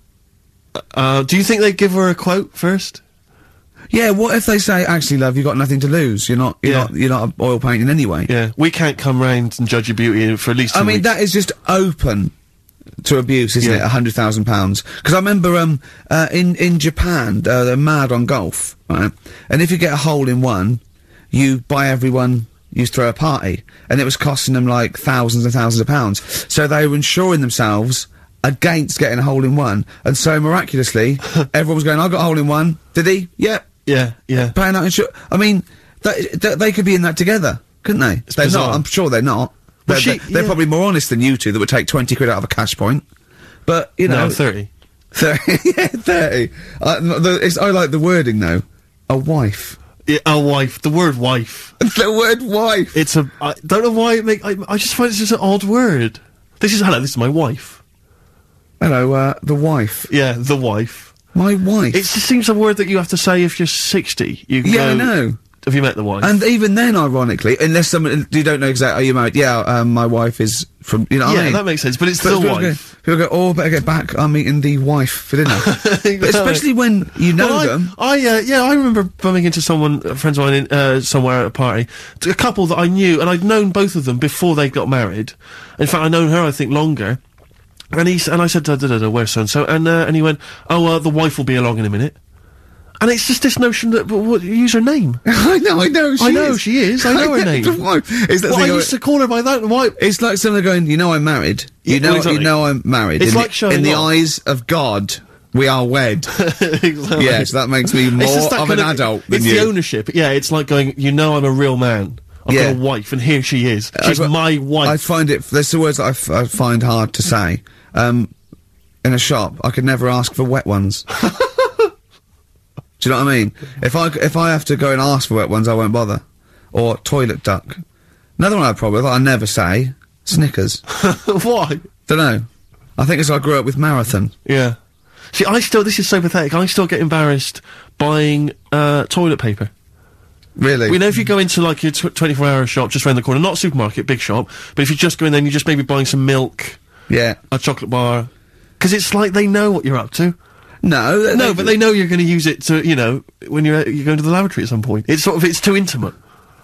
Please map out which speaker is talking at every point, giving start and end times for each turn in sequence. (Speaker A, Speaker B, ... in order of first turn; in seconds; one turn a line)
Speaker A: 0.7-3.0
Speaker B: 3.9-8.3
Speaker A: 6.6-6.9
Speaker A: 8.3-11.1
Speaker B: 10.7-12.3
Speaker B: 13.0-33.7
Speaker A: 33.9-34.5
Speaker B: 34.4-43.0
Speaker A: 38.4-38.8
Speaker A: 39.9-40.6
Speaker B: 43.6-44.4
Speaker A: 44.1-44.7
Speaker B: 45.1-49.8
Speaker A: 50.0-51.7
Speaker B: 51.8-53.0
Speaker A: 52.9-57.8
Speaker B: 58.8-60.1
Speaker A: 60.1-61.2
Speaker B: 61.3-62.0
Speaker A: 61.9-66.3
Speaker B: 64.6-65.4
Speaker B: 66.2-71.7
Speaker A: 71.2-72.8
Speaker B: 72.2-77.9
Speaker A: 75.5-87.2
Speaker A: 87.9-92.2
Speaker A: 93.0-95.2
Speaker B: 95.2-98.9
Speaker A: 96.2-97.8
Speaker A: 98.5-100.0
Speaker B: 100.0-106.3
Speaker A: 101.8-102.5
Speaker A: 103.2-104.1
Speaker A: 106.3-115.0
Speaker B: 107.2-109.7
Speaker B: 112.5-112.8
Speaker B: 113.9-118.3
Speaker B: 119.0-121.1
Speaker B: 123.0-127.8
Speaker B: 128.4-130.8
Speaker A: 130.9-131.8
Speaker B: 132.1-134.3
Speaker A: 134.4-139.7
Speaker B: 140.6-141.0
Speaker A: 140.9-146.8
Speaker B: 147.1-147.4
Speaker A: 147.5-150.4
Speaker B: 150.8-151.7
Speaker A: 151.3-156.2